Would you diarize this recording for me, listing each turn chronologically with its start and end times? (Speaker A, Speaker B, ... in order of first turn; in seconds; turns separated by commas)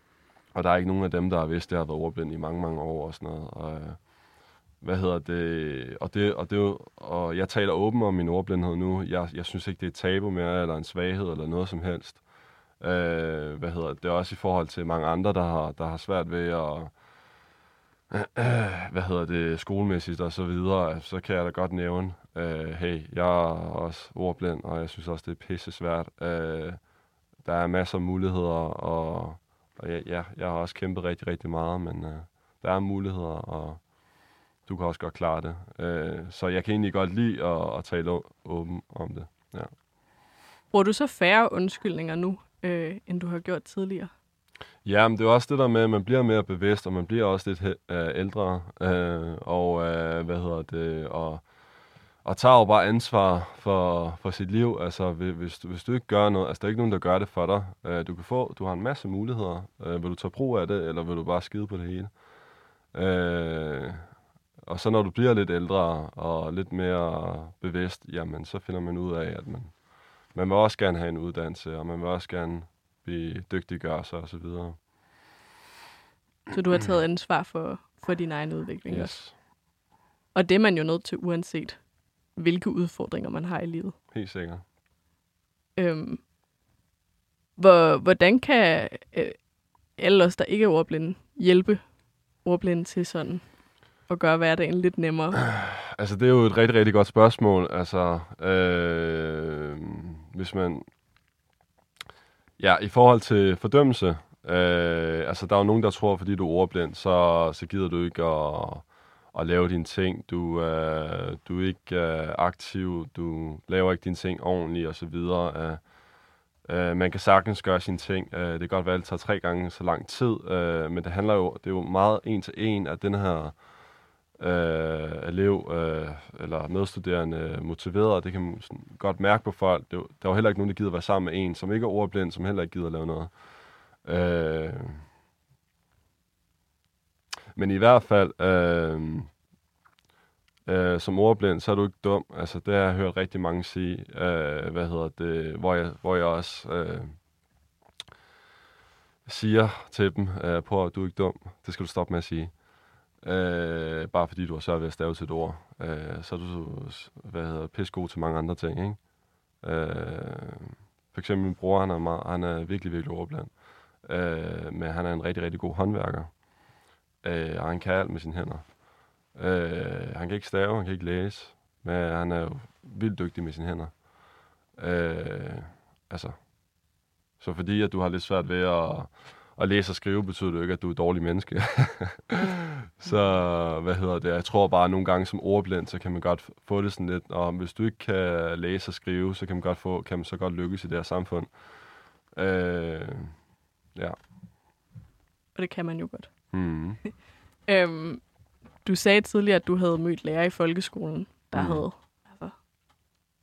Speaker A: 0.5-4.1, Speaker A: 4.8-12.2, Speaker A: 12.8-17.0, Speaker A: 18.1-26.8, Speaker A: 27.4-33.9, Speaker A: 34.6-39.7, Speaker B: 40.7-44.1, Speaker A: 44.8-51.4, Speaker A: 52.2-62.1, Speaker A: 62.9-64.0, Speaker A: 64.6-74.8, Speaker B: 76.5-79.4, Speaker A: 78.9-79.4, Speaker B: 80.3-81.8, Speaker B: 82.3-84.0, Speaker A: 84.1-84.6, Speaker B: 85.8-86.2, Speaker B: 87.6-89.4, Speaker B: 89.9-91.9, Speaker B: 92.4-95.5, Speaker A: 95.5-100.8, Speaker A: 102.6-115.9, Speaker A: 116.6-123.7, Speaker A: 124.3-135.0, Speaker A: 137.5-139.3, Speaker A: 140.7-147.2, Speaker A: 149.2-152.6, Speaker A: 153.2-159.0, Speaker A: 159.6-166.4, Speaker A: 167.2-168.8, Speaker A: 169.3-174.1, Speaker A: 174.7-176.5, Speaker A: 177.4-191.7, Speaker A: 192.3-193.3, Speaker B: 195.5-197.1, Speaker A: 196.5-197.0, Speaker B: 197.7-202.6, Speaker A: 201.5-201.8